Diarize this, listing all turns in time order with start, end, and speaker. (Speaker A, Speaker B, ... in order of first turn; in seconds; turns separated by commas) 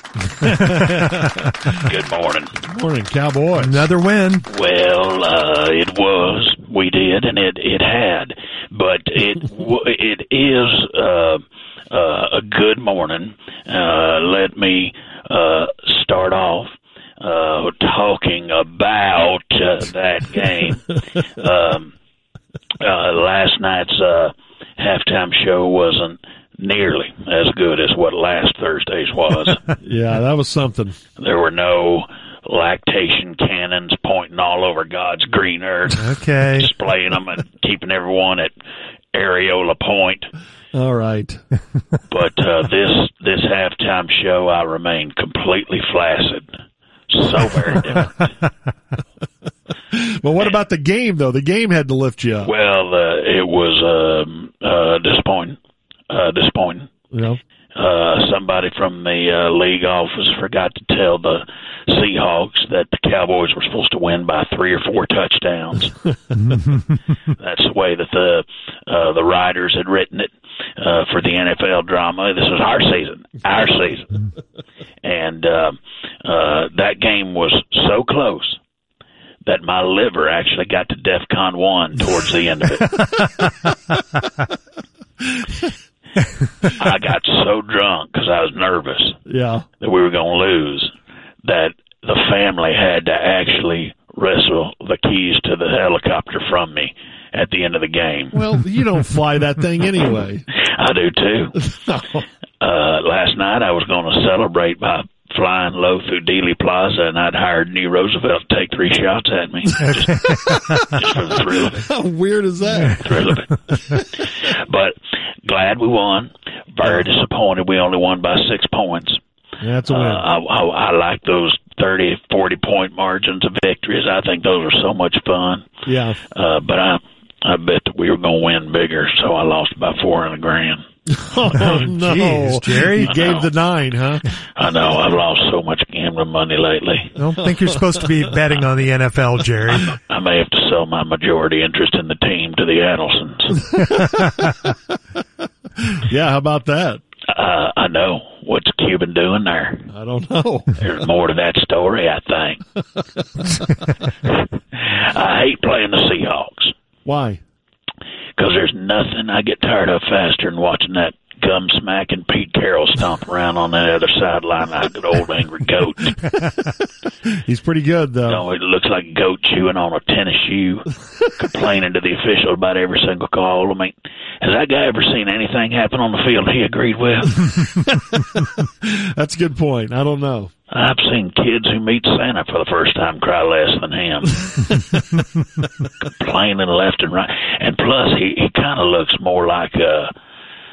Speaker A: 0.4-1.5, Speaker B: 0.5-1.0, Speaker C: 1.8-2.6, Speaker A: 2.6-3.9, Speaker B: 3.6-4.5, Speaker C: 4.5-21.9, Speaker C: 22.8-29.6, Speaker A: 29.8-31.0, Speaker C: 31.2-38.5, Speaker B: 35.9-36.7, Speaker C: 39.1-40.3, Speaker A: 40.7-41.4, Speaker C: 42.1-46.5, Speaker C: 47.1-48.3, Speaker A: 49.9-52.5, Speaker C: 52.4-55.6, Speaker C: 56.1-56.9, Speaker A: 57.1-57.4, Speaker C: 57.8-66.0, Speaker C: 67.4-74.1, Speaker C: 75.0-78.6, Speaker C: 79.4-83.0, Speaker C: 86.8-89.2, Speaker A: 89.3-89.7, Speaker C: 89.8-90.9, Speaker C: 91.4-98.4, Speaker A: 98.3-100.5, Speaker C: 100.5-101.6, Speaker A: 101.6-102.2, Speaker C: 102.6-111.9, Speaker A: 111.7-113.3, Speaker C: 112.9-119.2, Speaker A: 119.6-120.2, Speaker C: 119.9-125.7, Speaker A: 125.9-126.2, Speaker C: 126.3-130.8, Speaker A: 131.1-134.2, Speaker B: 131.6-133.2, Speaker C: 133.0-133.5, Speaker C: 134.6-137.2, Speaker B: 137.2-139.9, Speaker C: 139.7-143.7, Speaker A: 145.8-147.0, Speaker C: 147.3-149.9, Speaker A: 149.9-150.7, Speaker C: 150.8-152.6, Speaker C: 154.7-156.7, Speaker A: 157.1-157.4, Speaker C: 158.4-166.3, Speaker A: 167.3-168.4, Speaker C: 168.3-177.7, Speaker A: 177.9-180.5, Speaker C: 180.7-184.8, Speaker C: 186.0-190.1